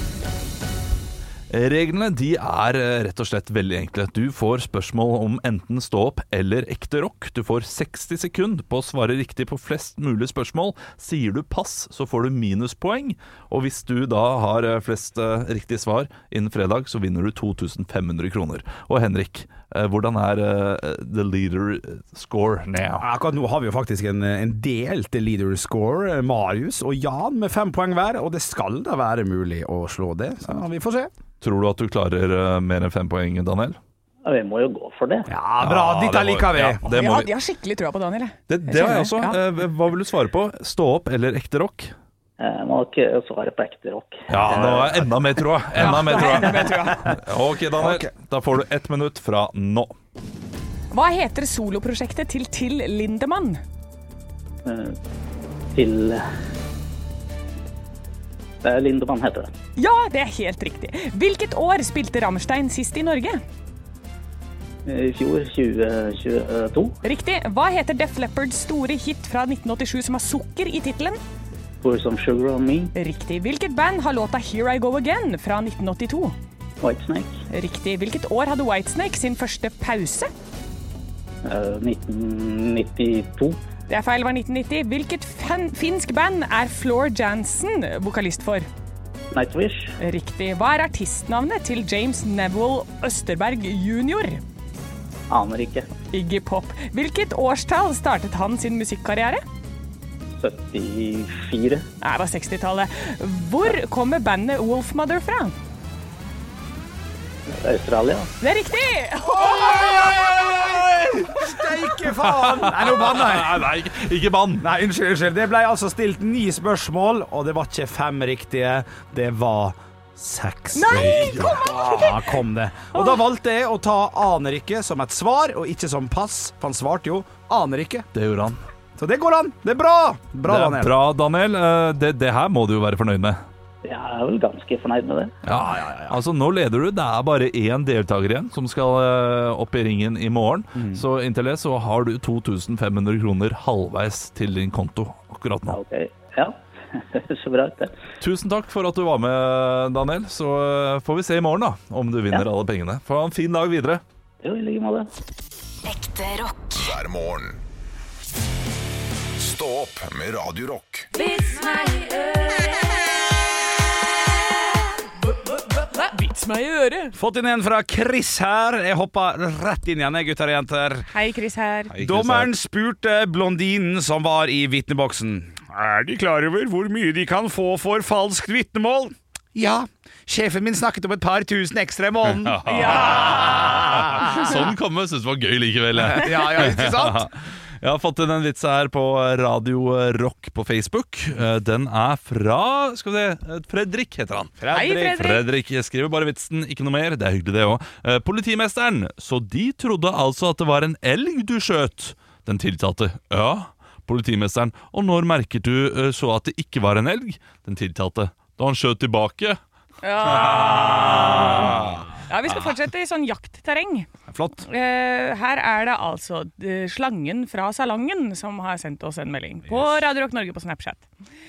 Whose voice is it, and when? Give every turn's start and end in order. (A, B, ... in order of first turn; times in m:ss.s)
0:01.5-0:23.0 A
0:23.0-0:31.1 B
0:31.4-0:33.8 A
0:34.2-0:35.3 C
0:35.3-0:36.8 B
0:35.6-0:37.3 A
0:36.9-0:39.4 D
0:38.5-0:41.9 A
0:42.4-0:45.1 C
0:44.3-0:49.9 A
0:45.8-0:47.1 D
0:45.8-0:46.3 B
0:47.8-0:48.1 B
0:50.9-0:53.6 D
0:54.6-0:55.0 C
0:55.7-0:56.3 C
0:58.6-0:59.5 C
0:59.8-1:03.4 D
1:04.8-1:07.0 C
1:07.0-1:11.2 D
1:11.8-1:12.9 C
1:13.0-1:16.4 D
1:16.8-1:17.4 C
1:17.5-1:20.3 D
1:21.4-1:23.6 C
1:23.9-1:28.7 D
1:29.3-1:30.0 C
1:30.0-1:34.4 D
1:35.3-1:35.9 C
1:36.1-1:39.4 D
1:40.4-1:41.9 C
1:42.0-1:45.6 D
1:47.5-1:48.3 C
1:48.4-1:49.8 D
1:49.4-1:54.7 A
1:49.6-1:53.7 B
1:54.6-2:08.1 B
2:00.7-2:02.3 D
2:00.9-2:02.1 A
2:02.9-2:03.2 D
2:08.1-2:08.6 A
2:09.0-2:11.0 B
2:10.4-2:13.4 A
2:13.8-2:15.4 C
2:15.4-2:25.8 A
2:15.5-2:16.2 B
2:20.8-2:21.0 B
2:25.7-2:28.0 C
2:28.2-2:34.0 A
2:34.4-2:35.1 C
2:36.7-2:37.6 E
2:39.4-2:41.1 E
2:41.2-2:42.7 D
2:45.8-2:47.2 D
2:47.1-2:51.1 B
2:51.1-2:52.0 D
2:51.9-2:52.5 A
2:52.0-3:04.6 B
3:02.3-3:14.6 A
3:02.7-3:04.4 D
3:06.0-3:07.3 B
3:14.6-3:15.3 B
3:14.7-3:15.4 D
3:15.1-3:29.6 A
3:30.0-3:34.1 D
3:30.3-3:32.1 A
3:31.3-3:32.0 B
3:34.3-3:34.6 B
3:34.6-3:41.1 D
3:39.7-3:40.0 B